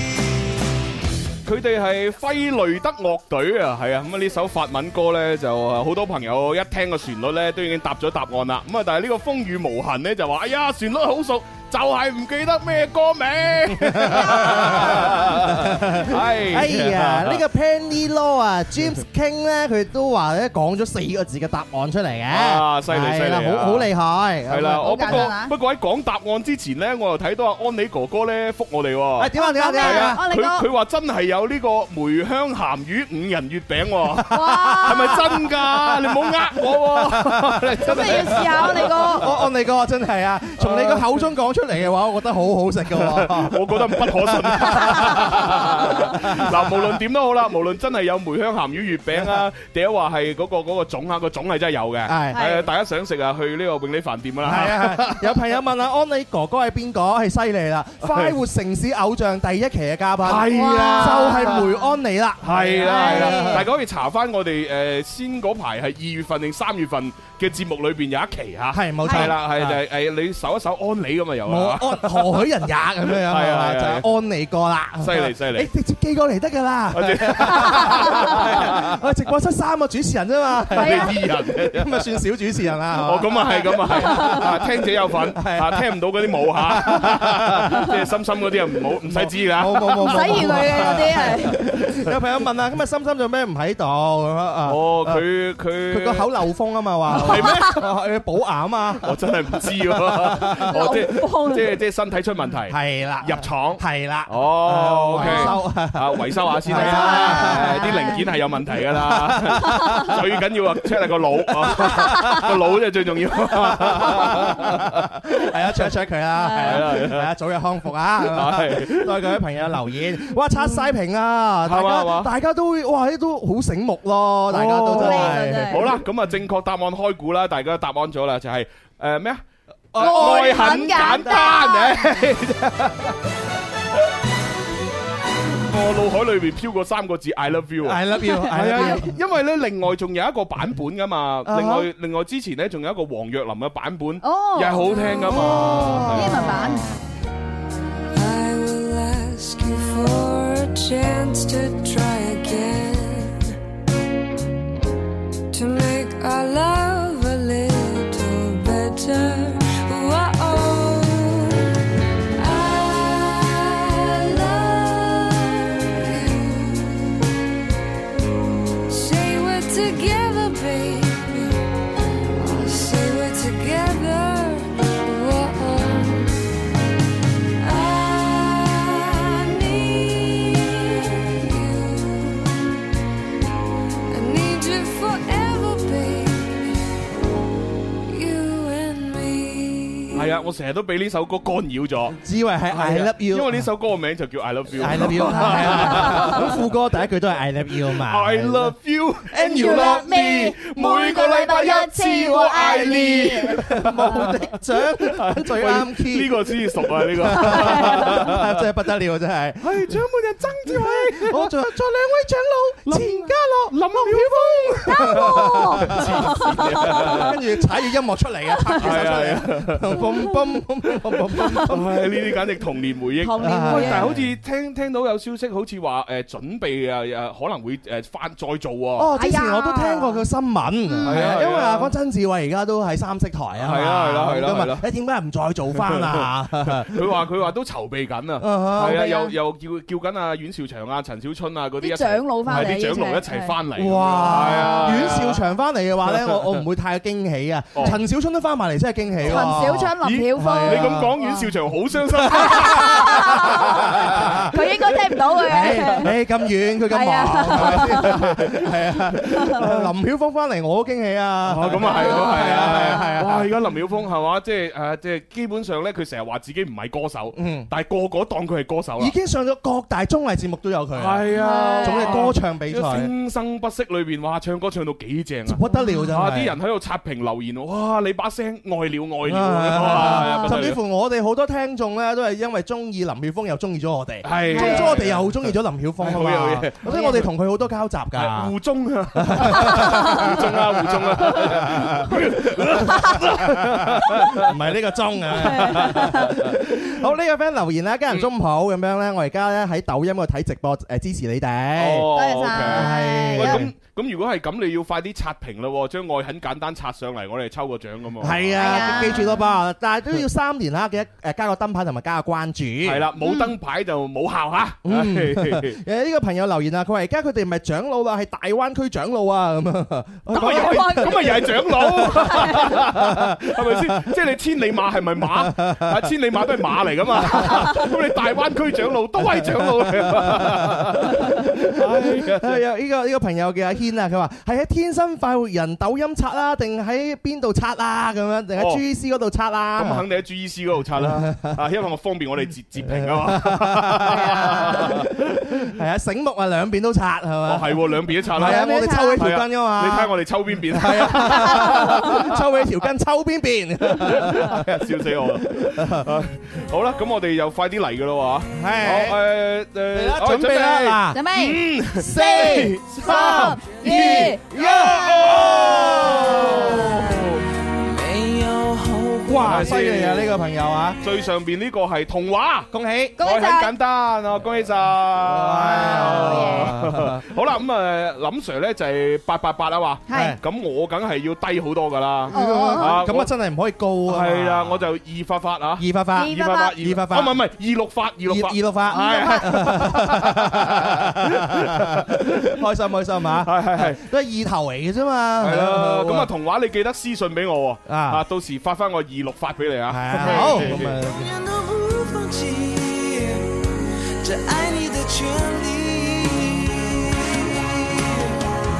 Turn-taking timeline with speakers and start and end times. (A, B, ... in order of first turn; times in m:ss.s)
0:01.4-0:17.4 A
0:13.8-0:25.3 B
0:22.3-0:23.9 A
0:24.5-0:39.4 A
0:24.8-0:25.5 C
0:29.2-0:30.2 B
0:29.3-0:30.6 C
0:34.3-0:35.2 C
0:34.3-0:46.9 B
0:37.8-0:39.3 C
0:40.6-0:41.2 A
0:42.9-0:55.4 A
0:52.0-0:52.4 B
0:52.3-0:52.6 C
0:54.4-1:03.7 B
0:58.0-0:58.3 A
1:00.2-1:01.7 A
1:00.5-1:01.7 C
1:02.4-1:12.5 A
1:02.8-1:03.6 C
1:08.7-1:09.8 B
1:09.0-1:09.3 C
1:11.4-1:24.7 B
1:13.1-1:14.0 A
1:15.0-1:15.7 A
1:16.9-1:18.9 A
1:20.7-1:22.2 A
1:20.7-1:21.1 C
1:22.9-1:32.1 A
1:24.0-1:24.4 C
1:25.3-1:27.9 B
1:29.0-1:35.2 B
1:30.0-1:31.6 C
1:34.6-1:36.3 A
1:35.9-1:41.0 B
1:37.1-1:37.8 A
1:39.0-1:55.1 A
1:40.7-1:41.7 C
1:42.7-1:48.2 B
1:45.2-1:45.5 C
1:46.7-1:48.2 C
1:48.8-1:50.6 B
1:51.6-1:52.5 B
1:53.5-2:06.0 B
1:56.4-1:56.8 C
1:56.6-1:57.3 A
1:58.2-1:59.4 A
2:01.6-2:02.3 A
2:04.5-2:09.4 A
2:04.9-2:05.9 C
2:09.9-2:13.1 A
2:09.9-2:11.1 B
2:10.0-2:12.0 C
2:15.7-2:26.7 A
2:17.8-2:19.2 B
2:18.2-2:19.0 C
2:21.4-2:21.9 B
2:24.2-2:26.9 C
2:25.3-2:26.8 B
2:28.1-2:33.5 D
2:35.5-2:41.7 D
2:42.4-2:47.2 D
2:48.9-2:51.6 D
2:52.3-2:56.4 D
2:57.6-3:02.7 D
3:04.1-3:06.9 D
3:08.1-3:10.3 D
3:10.1-3:12.2 A
3:12.2-3:13.7 B
3:12.7-3:16.6 A
3:14.7-3:18.7 B
3:17.8-3:28.6 A
3:19.3-3:20.1 B
3:19.4-3:23.6 C
3:23.5-3:30.0 B
3:27.5-3:28.0 C
3:29.6-3:31.6 A
3:30.6-3:42.1 B
3:32.8-3:37.4 A
3:34.8-3:37.2 C
3:38.8-3:40.1 A
3:41.4-3:41.7 C
3:41.5-3:49.1 A
3:43.2-3:44.1 C
3:43.4-3:44.3 B
3:49.0-3:57.1 B
3:49.2-3:50.2 C
3:50.9-3:51.1 C
3:51.0-3:51.9 A
3:53.6-3:54.8 A
3:55.8-4:05.4 A
3:58.4-3:59.1 B
3:59.0-3:59.3 C
4:01.8-4:03.5 C
4:02.5-4:02.7 B
4:03.7-4:11.1 B
4:04.3-4:04.9 C
4:06.1-4:06.6 A
4:09.2-4:14.5 A
4:09.3-4:11.5 C
4:12.2-4:14.5 B
4:12.3-4:16.1 C
4:15.4-4:23.5 B
4:15.6-4:16.0 A
4:16.9-4:18.2 C
4:17.4-4:19.8 A
4:21.4-4:29.1 A
4:21.8-4:23.2 C
4:27.3-4:27.7 B
4:29.0-4:31.3 B
4:31.0-4:40.8 A
4:31.3-4:32.3 C
4:31.8-4:33.1 B
4:35.4-4:36.5 B
4:35.7-4:36.0 C
4:39.2-4:48.5 B
4:40.0-4:40.5 C
4:44.2-4:47.3 A
4:44.5-4:44.9 C
4:46.9-4:47.2 C
4:48.1-4:54.5 A
4:49.2-5:03.7 B
4:55.3-4:56.6 A
4:55.4-4:56.3 C
5:01.8-5:09.3 A
5:02.1-5:03.6 C
5:08.2-5:13.1 B
5:08.6-5:09.2 C
5:12.8-5:15.8 A
5:13.2-5:13.5 C
5:14.8-5:24.1 B
5:20.3-5:32.6 A
5:20.3-5:21.3 C
5:22.0-5:22.8 C
5:25.2-5:26.1 B
5:27.1-5:27.9 B
5:27.4-5:27.8 C
5:29.2-5:40.0 B
5:38.6-5:38.8 A
5:39.8-5:45.1 A
5:41.0-5:41.6 B
5:42.9-5:56.1 B
5:44.2-5:44.9 C
5:47.4-5:52.3 A
5:48.4-5:49.2 C
5:53.9-6:07.4 A
5:58.5-5:59.2 B
5:59.9-6:01.2 B
6:01.1-6:04.4 C
6:02.0-6:07.0 B
6:06.1-6:07.0 C
6:07.8-6:09.5 E
6:09.3-6:11.0 B
6:09.3-6:10.3 A
6:11.0-6:23.3 A
6:12.7-6:13.2 B
6:13.2-6:13.7 C
6:15.2-6:17.2 B
6:15.8-6:16.7 C
6:20.1-6:20.4 C
6:20.1-6:20.4 B
6:22.3-6:24.9 B
6:22.3-6:23.0 C
6:24.0-6:32.6 A
6:25.8-6:27.4 B
6:26.2-6:26.7 C
6:28.2-6:36.3 B
6:28.9-6:29.5 C
6:33.4-6:34.0 A
6:35.4-6:41.0 A
6:37.9-6:38.2 B
6:39.9-6:41.3 B
6:40.1-6:43.7 E
6:44.2-6:48.3 E